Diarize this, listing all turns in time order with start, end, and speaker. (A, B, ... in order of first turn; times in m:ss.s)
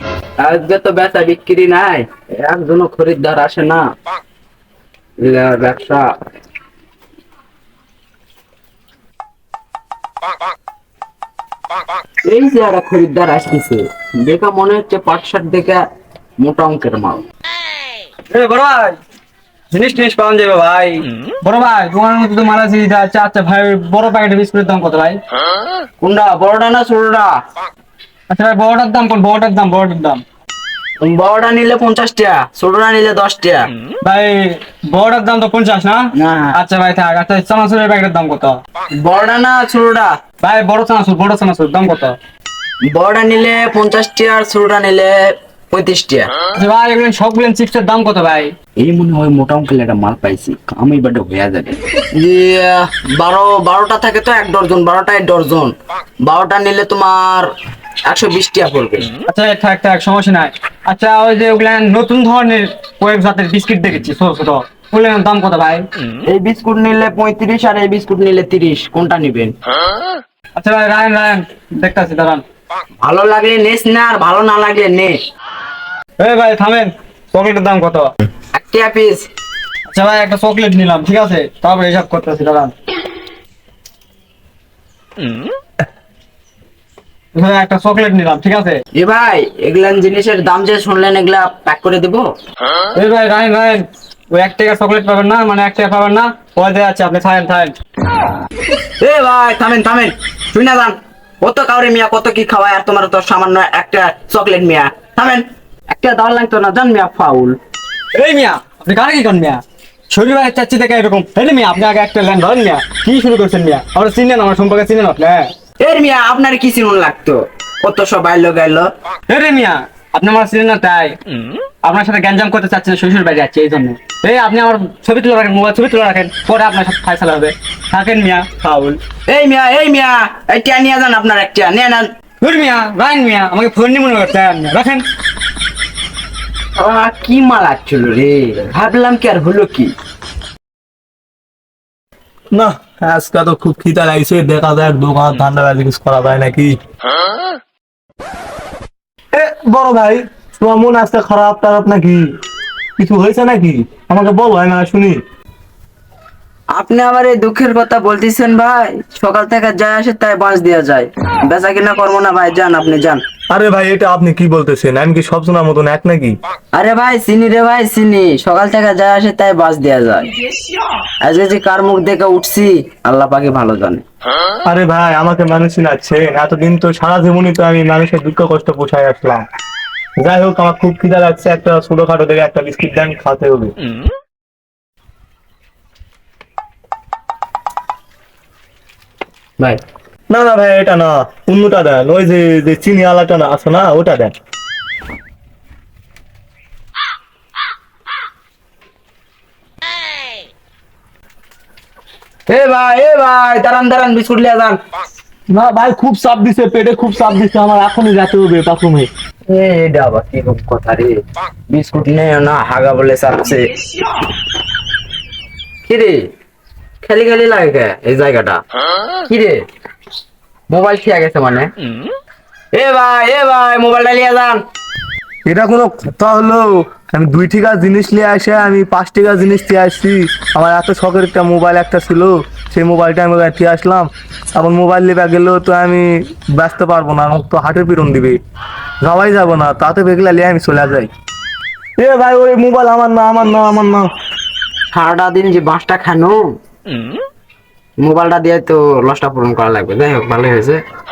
0:00.4-0:03.9 A
0:05.2-0:06.1 A
0:12.3-0:15.8 A
0:16.4-0:17.2 A
0:18.3-0:19.0 B
0:19.7-0:25.2 B
0:26.0-0:27.4 A
0:28.3-0:30.2 B
0:31.0-0:33.7 A
0:34.0-0:38.6 B
0:36.2-0:36.6 A
0:38.9-0:40.2 A
0:40.4-0:42.2 B
0:42.8-0:46.3 A
0:46.6-0:48.5 B
0:48.8-0:57.5 A
0:58.0-0:59.1 A
0:59.3-1:05.9 B
1:06.3-1:09.5 A
1:10.6-1:12.4 B
1:13.0-1:15.2 A
1:16.2-1:18.1 B
1:18.5-1:19.3 A
1:19.9-1:22.7 B
1:27.4-1:28.8 B
1:29.0-1:32.3 A
1:33.0-1:37.8 B
1:39.0-1:47.6 A
1:48.1-1:55.5 B
1:55.8-1:58.9 A
1:59.3-2:01.2 B
2:01.8-2:09.0 B
2:09.3-2:12.1 A
2:12.4-2:15.1 B
2:16.8-2:19.9 A
2:22.5-2:26.8 C
2:29.3-2:32.3 C
2:33.0-2:35.2 C
2:36.7-2:43.2 A
2:43.5-2:46.4 C
2:46.7-2:50.3 A
2:51.2-2:54.0 A
2:54.7-2:59.4 C
3:00.2-3:03.7 C
3:10.3-3:14.3 C
3:22.5-3:24.8 A
3:25.5-3:29.1 C
3:29.5-3:31.2 A
3:31.7-3:33.7 A
3:35.9-3:36.3 A
3:37.0-3:38.6 A
3:39.3-3:39.6 A
3:40.7-3:41.7 A
3:42.7-3:44.6 A
3:45.5-3:58.4 C
3:59.0-4:01.1 C
4:02.0-4:04.1 C
4:04.9-4:06.4 A
4:08.0-4:10.8 A